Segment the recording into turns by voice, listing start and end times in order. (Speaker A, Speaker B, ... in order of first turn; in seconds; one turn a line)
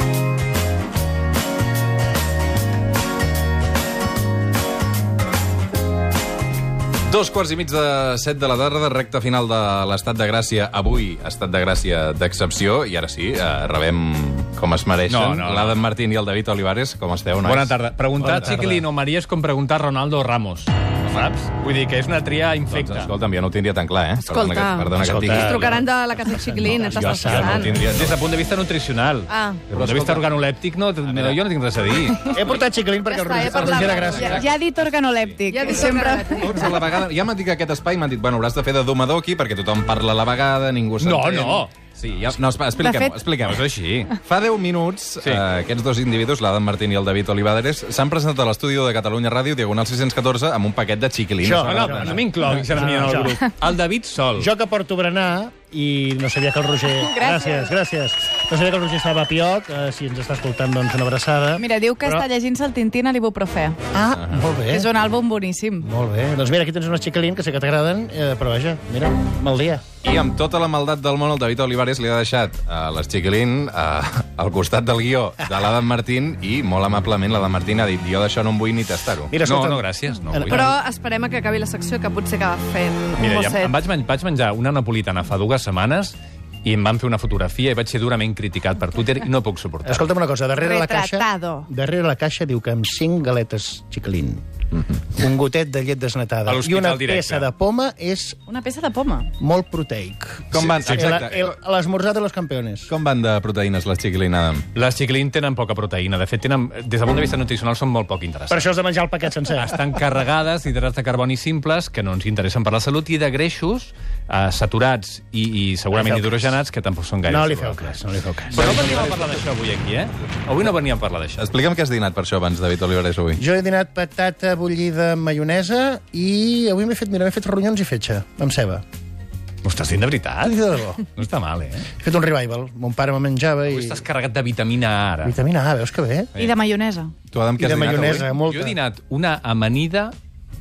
Speaker A: 7.1-17.8
Speaker B: 15.1-15.8
Speaker B: 17.4-23.1
Speaker C: 18.2-18.8
Speaker A: 22.7-25.8
Speaker D: 24.2-27.8
Speaker C: 25.0-25.9
Speaker C: 26.5-27.8
Speaker A: 27.0-28.1
Speaker B: 27.7-32.3
Speaker D: 29.3-29.7
Speaker A: 29.8-30.2
Speaker A: 31.1-31.4
Speaker C: 32.3-34.5
Speaker D: 33.0-34.4
Speaker A: 33.8-34.5
Speaker E: 34.1-36.7
Speaker D: 35.5-36.6
Speaker A: 36.3-41.6
Speaker B: 41.0-42.4
Speaker A: 42.2-43.7
Speaker E: 42.8-43.2
Speaker B: 43.4-44.2
Speaker A: 44.2-52.2
Speaker C: 51.4-53.4
Speaker B: 51.6-54.5
Speaker C: 54.4-62.2
Speaker E: 57.0-57.6
Speaker E: 61.6-63.8
Speaker C: 63.9-64.9
Speaker A: 64.1-64.4
Speaker E: 64.7-65.8
Speaker C: 65.8-69.8
Speaker A: 70.0-79.3
Speaker C: 79.3-80.8
Speaker B: 79.4-80.7
Speaker D: 80.5-83.7
Speaker B: 83.2-90.1
Speaker C: 89.8-94.4
Speaker E: 90.6-91.7
Speaker C: 94.9-98.4
Speaker B: 96.5-97.5
Speaker E: 98.5-99.3
Speaker C: 99.4-102.9
Speaker A: 100.5-101.5
Speaker A: 102.9-104.6
Speaker B: 104.7-108.7
Speaker C: 108.5-109.8
Speaker B: 109.4-118.0
Speaker C: 115.9-116.5
Speaker C: 117.3-119.0
Speaker B: 118.5-121.5
Speaker A: 118.6-119.2
Speaker A: 121.4-123.4
Speaker C: 123.3-128.8
Speaker B: 129.6-131.9
Speaker C: 130.4-131.0
Speaker C: 132.0-134.0
Speaker B: 133.7-135.4
Speaker C: 135.2-136.3
Speaker E: 136.3-137.1
Speaker A: 137.3-138.3
Speaker C: 137.6-138.8
Speaker B: 138.0-140.1